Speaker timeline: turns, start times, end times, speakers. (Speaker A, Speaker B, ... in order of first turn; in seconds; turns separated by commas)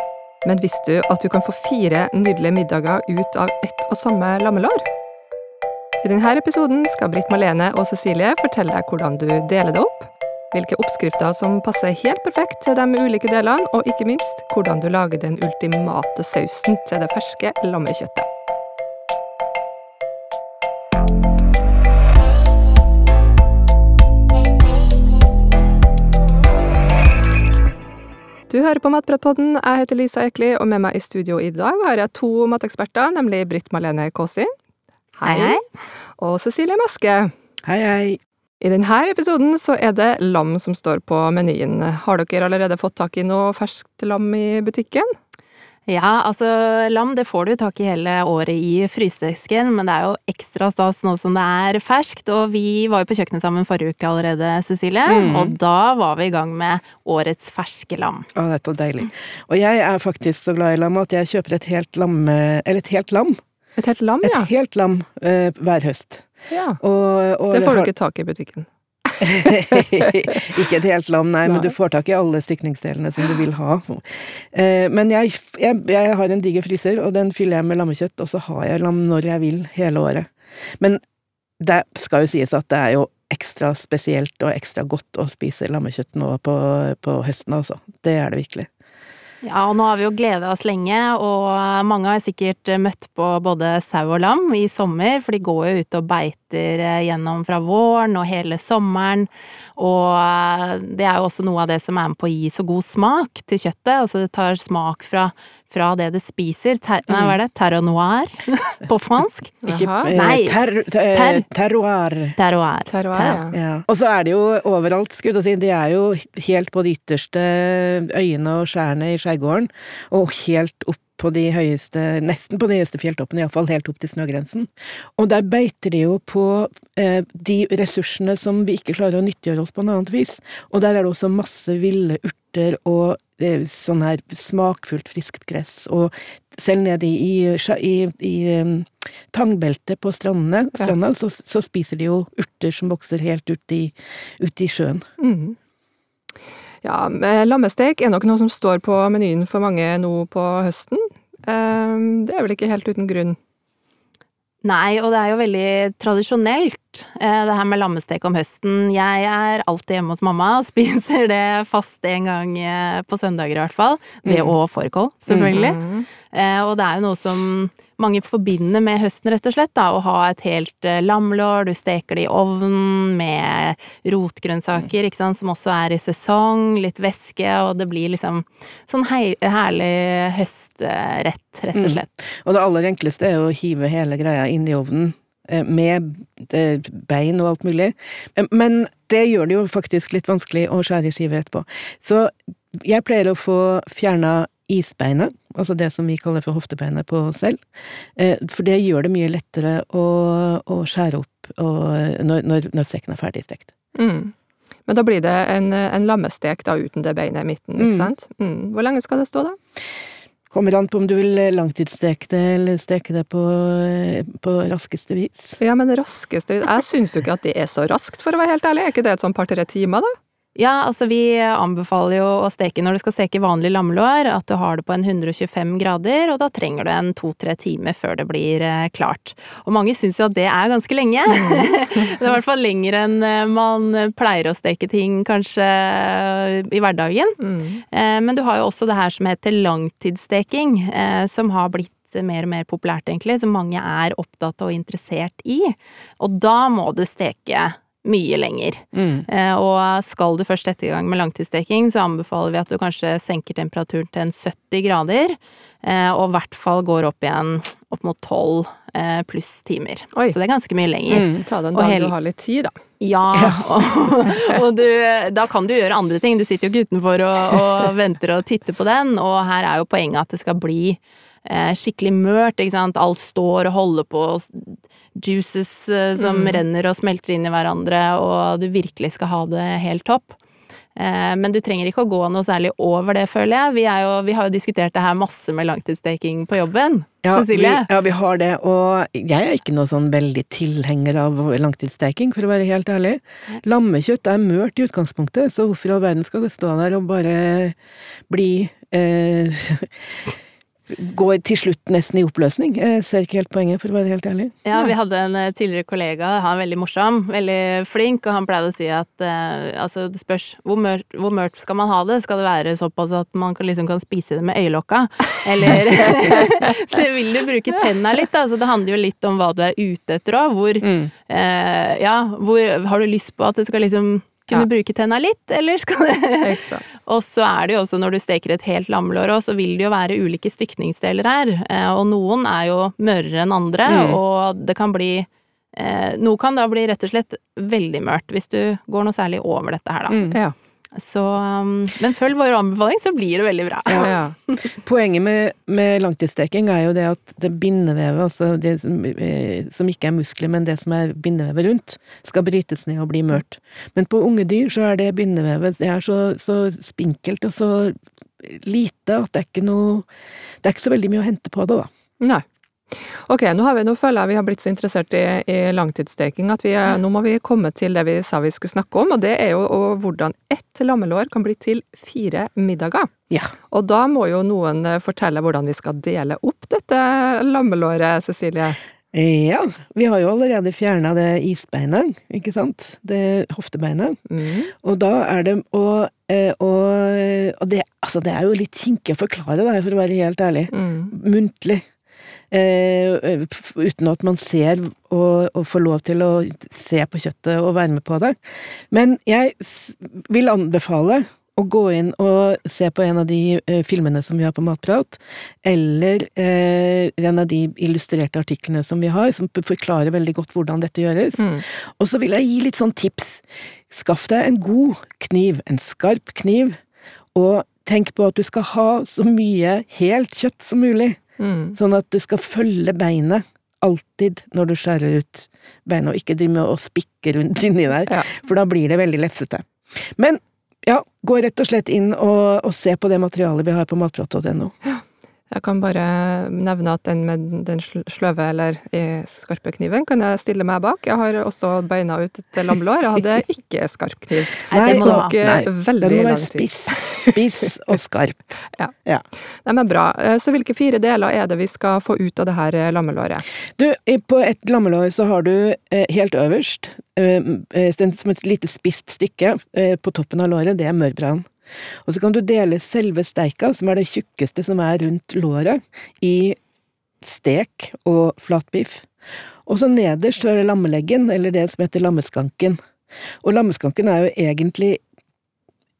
Speaker A: 0.4-4.8, Speaker A: 6.0-18.2, Speaker A: 28.5-34.5, Speaker A: 35.1-35.6, Speaker B: 35.2-35.6, Speaker A: 36.2-37.3, Speaker C: 37.6-38.2, Speaker A: 38.6-45.1, Speaker B: 45.9-58.3, Speaker C: 55.0-55.6, Speaker C: 58.3-63.4, Speaker A: 63.8-64.5, Speaker C: 64.2-67.9, Speaker A: 66.5-66.8, Speaker A: 67.5-68.7, Speaker C: 69.2-81.0, Speaker A: 71.5-71.7, Speaker C: 81.6-88.7, Speaker B: 89.4-111.5, Speaker C: 107.1-107.4, Speaker A: 109.6-110.1, Speaker C: 109.7-112.4, Speaker B: 112.3-113.4, Speaker A: 112.9-113.5, Speaker C: 113.5-145.1, Speaker A: 145.2-145.6, Speaker A: 146.8-153.4, Speaker B: 154.6-182.1, Speaker C: 164.2-164.6, Speaker C: 165.3-165.6, Speaker A: 165.5-166.1, Speaker C: 181.7-197.6, Speaker C: 198.2-203.7, Speaker A: 203.9-204.3, Speaker A: 204.9-209.6, Speaker C: 207.8-208.1, Speaker C: 210.5-215.6, Speaker A: 215.6-220.1, Speaker B: 220.5-237.4, Speaker A: 231.3-231.7, Speaker A: 237.4-237.8, Speaker B: 237.9-262.1, Speaker C: 248.9-249.2, Speaker C: 261.1-261.4, Speaker A: 261.4-262.8, Speaker B: 263.0-280.4, Speaker C: 263.3-263.8, Speaker A: 276.2-276.6, Speaker B: 280.9-287.9, Speaker C: 287.2-297.8, Speaker C: 298.3-300.3, Speaker C: 300.9-304.5, Speaker B: 304.6-340.3, Speaker C: 320.8-321.1, Speaker A: 326.4-326.9, Speaker C: 333.9-334.2, Speaker C: 340.1-340.4, Speaker B: 340.9-344.8, Speaker C: 343.9-344.1, Speaker A: 344.0-344.3, Speaker C: 344.7-360.1, Speaker C: 360.6-361.9, Speaker A: 362.2-373.1, Speaker A: 373.7-378.8, Speaker C: 379.1-384.2, Speaker A: 384.3-384.7, Speaker C: 384.8-391.8, Speaker A: 390.7-391.1, Speaker C: 392.5-416.8, Speaker A: 411.4-411.6, Speaker C: 417.3-421.2, Speaker A: 421.4-421.8, Speaker C: 421.7-434.7, Speaker A: 434.9-447.4, Speaker B: 444.7-445.4, Speaker C: 444.7-448.4, Speaker A: 449.6-453.4, Speaker C: 453.8-461.4, Speaker C: 462.1-466.6, Speaker C: 467.2-469.1, Speaker C: 469.7-472.8, Speaker C: 473.4-475.0